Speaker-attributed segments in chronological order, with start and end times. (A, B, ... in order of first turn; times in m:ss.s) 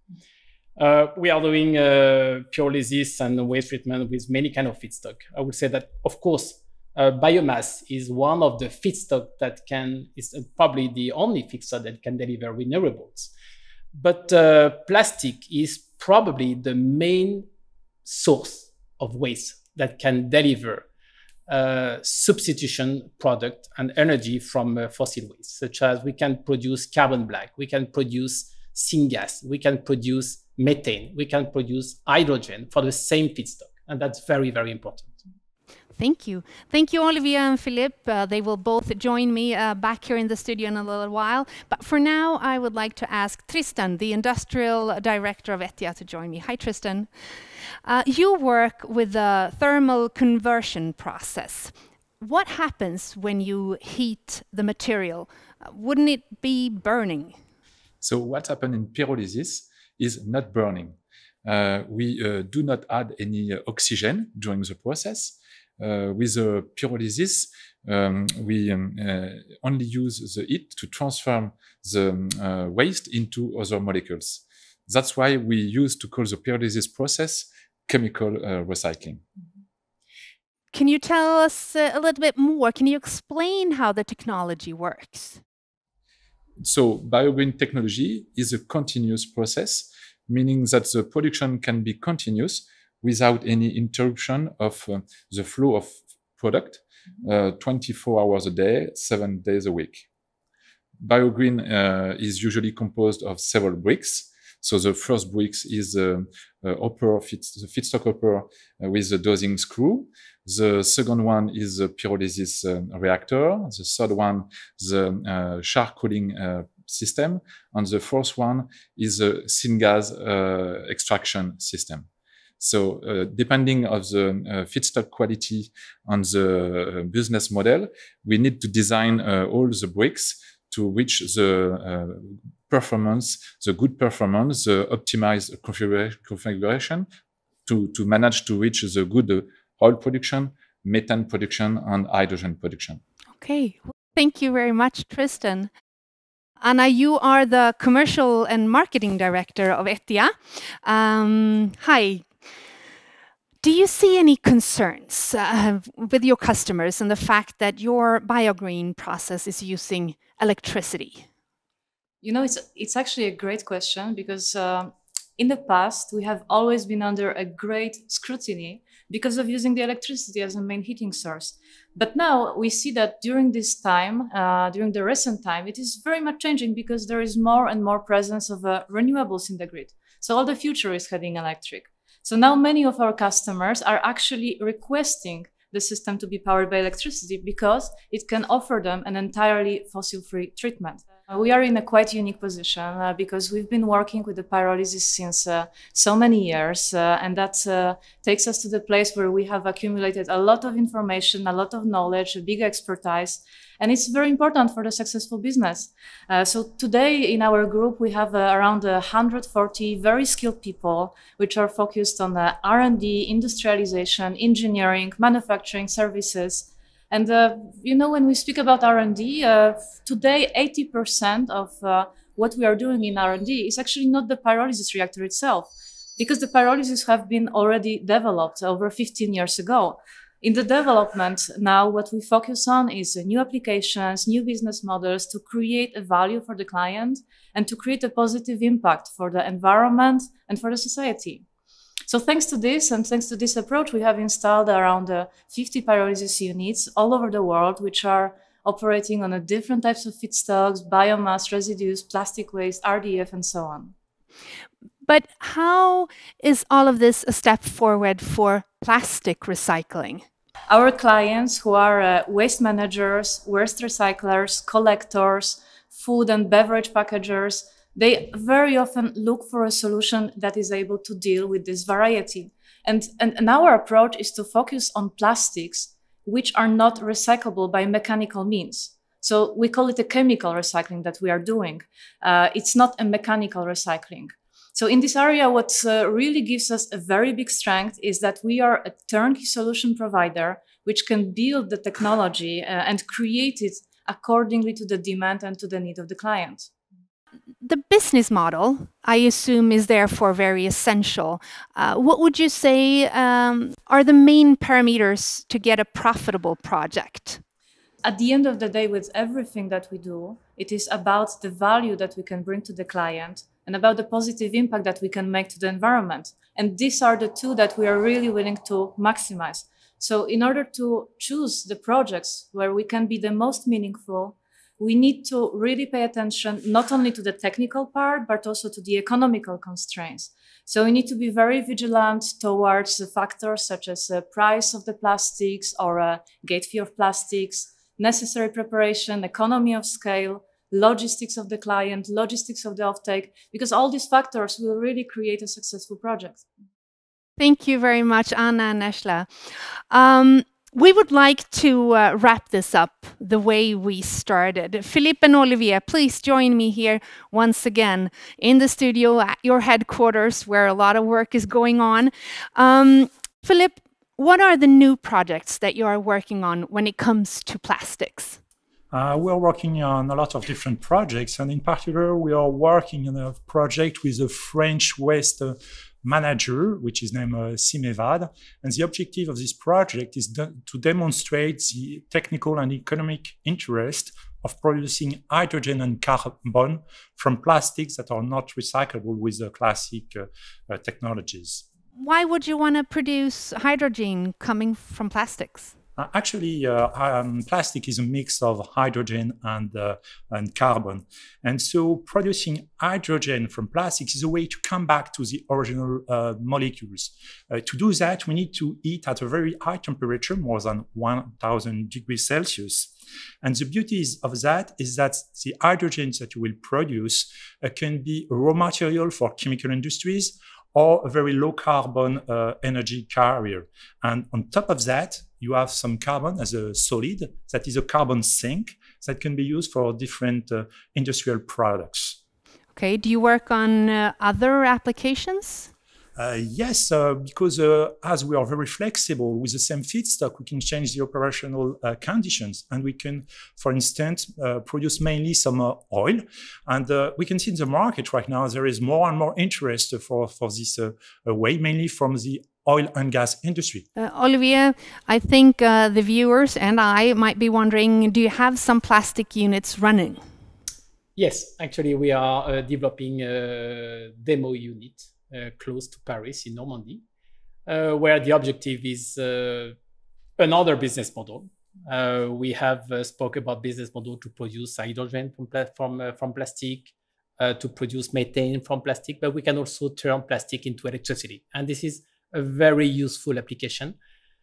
0:00.8-0:13.3 A
0:13.9-0:17.5 A
0:18.0-0:20.8 A
0:21.5-0:35.2 A
0:36.0-0:47.1 B
0:47.8-0:57.4 B
0:58.0-1:19.2 C
1:20.7-1:25.4 B
1:26.6-1:40.0 C
1:41.0-2:02.1 C
2:02.6-2:17.1 C
2:17.6-2:23.0 C
2:23.4-2:25.7 B
2:26.6-2:32.2 B
2:33.6-2:41.2 B
2:42.2-4:01.4 D
4:02.1-4:13.9 D
4:15.0-4:20.2 B
4:20.7-4:56.7 D
4:57.6-5:07.4 B
5:08.0-5:46.4 D
5:47.4-5:49.3 B
5:49.9-6:08.4 B
6:08.9-6:31.6 E
6:32.0-6:35.7 B
6:36.0-6:52.9 E
6:53.4-7:12.2 E
7:12.7-7:15.7 B
7:16.2-7:33.8 E
7:34.0-7:40.2 B
7:41.2-7:47.0 A
7:47.6-7:49.8 A
7:50.4-8:04.0 A